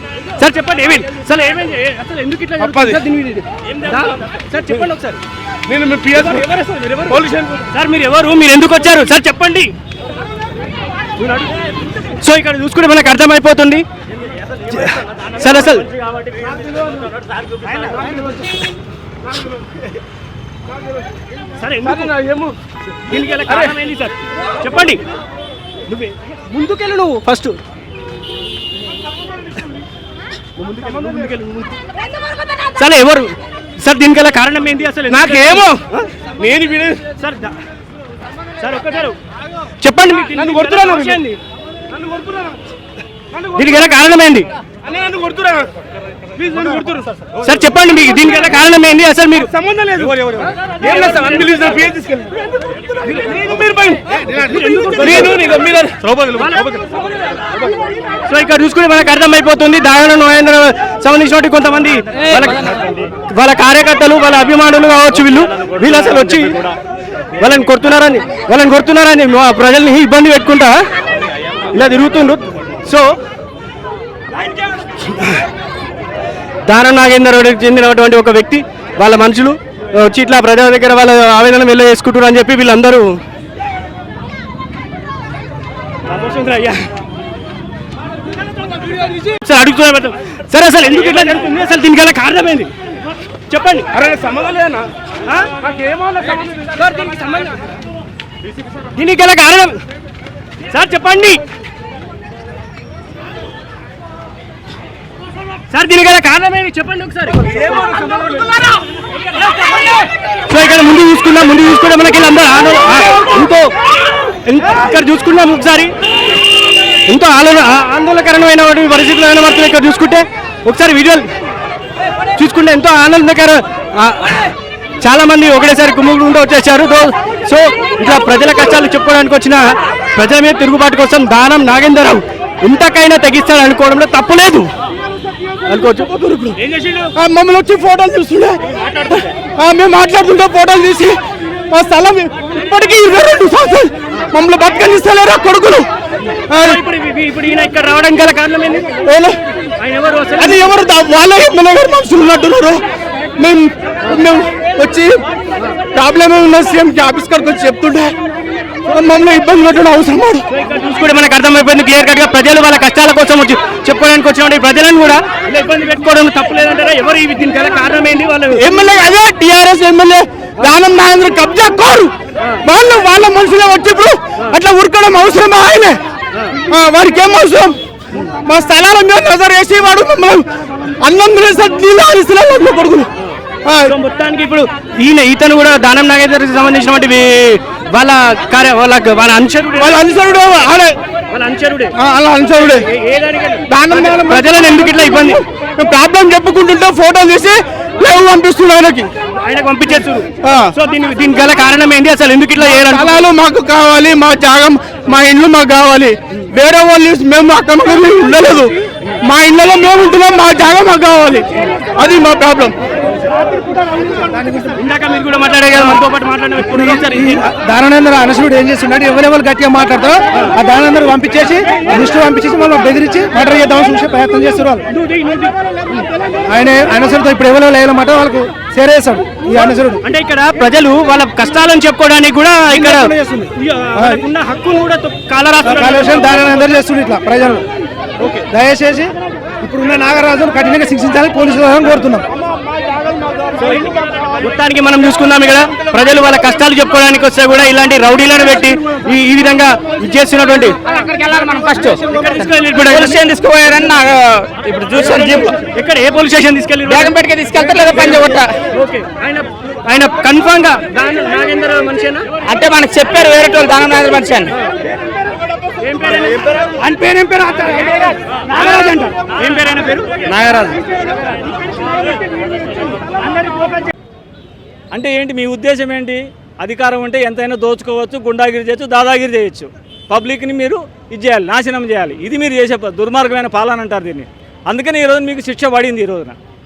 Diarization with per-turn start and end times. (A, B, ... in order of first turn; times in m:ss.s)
0:00.4-0:05.2 A
0:02.6-0:03.0 B
0:05.7-0:06.4 B
0:06.1-0:09.7 A
0:07.1-0:07.6 B
0:11.2-0:13.8 A
0:14.7-0:15.9 A
0:16.0-0:18.0 C
0:18.0-0:18.4 A
0:21.5-0:22.5 A
0:22.0-0:22.5 B
0:23.0-0:25.0 A
0:25.9-0:27.6 A
0:30.6-0:31.8 A
0:32.7-0:36.0 A
0:35.1-0:35.8 B
0:36.4-0:37.1 B
0:37.1-0:37.5 A
0:38.6-0:39.2 A
0:39.8-0:41.4 A
0:40.4-0:41.2 B
0:43.3-0:44.5 A
0:44.8-0:45.7 B
0:46.4-0:47.1 B
0:47.4-0:49.5 A
0:49.5-0:52.5 B
0:50.8-0:51.8 A
0:53.0-0:55.5 A
0:53.1-0:56.8 B
0:56.3-0:56.8 A
0:58.2-1:06.7 A
1:05.1-1:06.7 C
1:07.4-1:10.8 A
1:11.6-1:13.1 A
1:15.0-1:15.4 A
1:16.6-1:23.2 A
1:26.1-1:26.9 A
1:28.9-1:32.7 A
1:33.5-1:33.9 A
1:33.9-1:34.9 B
1:35.2-1:35.5 A
1:35.6-1:36.2 B
1:36.1-1:37.6 A
1:38.9-1:39.8 A
1:40.7-1:41.4 A
1:45.7-1:48.2 A
1:47.6-1:48.1 B
1:50.4-1:53.7 A
1:54.4-1:55.9 A
1:57.1-2:01.3 A
2:02.4-2:14.7 A
2:15.6-2:17.1 A
2:16.0-2:16.6 B
2:17.1-2:18.7 B
2:18.7-2:19.3 A
2:19.6-2:25.9 B
2:26.5-2:26.8 B
2:26.6-2:28.9 A
2:29.0-2:29.4 B
2:29.8-2:30.6 A
2:30.4-2:32.8 B
2:33.4-2:35.2 B
2:35.9-2:38.2 B
2:38.8-2:40.4 B
2:40.5-2:48.6 A
2:48.5-2:52.1 B
2:52.6-2:56.0 B
2:56.6-2:57.8 B
2:58.3-3:03.1 B
3:03.2-3:10.0 A
3:03.6-3:03.9 B
3:09.8-3:11.0 B
3:11.3-3:11.9 A
3:12.0-3:12.8 B
3:12.5-3:15.4 A
3:13.7-3:19.1 B
3:19.4-3:23.2 A
3:20.4-3:20.7 B
3:22.6-3:32.8 B
3:34.7-3:37.5 A
3:35.7-3:36.0 D
3:36.6-3:44.8 D
3:44.9-3:46.0 A
3:46.4-3:50.0 D
3:50.0-3:56.4 A
3:52.7-3:54.2 D
3:55.6-3:57.6 D
3:58.2-3:58.4 A
3:58.5-4:02.3 D
4:03.5-4:10.8 A
4:10.8-4:15.5 E
4:12.0-4:13.2 A
4:14.9-4:17.2 A
4:16.8-4:18.5 E
4:17.8-4:22.3 A
4:22.4-4:24.5 E
4:25.8-4:26.4 A
4:27.6-4:30.5 A
4:28.6-4:29.0 C
4:30.3-4:30.8 E
4:31.0-4:31.3 A
4:32.1-4:33.0 A
4:34.9-4:46.4 C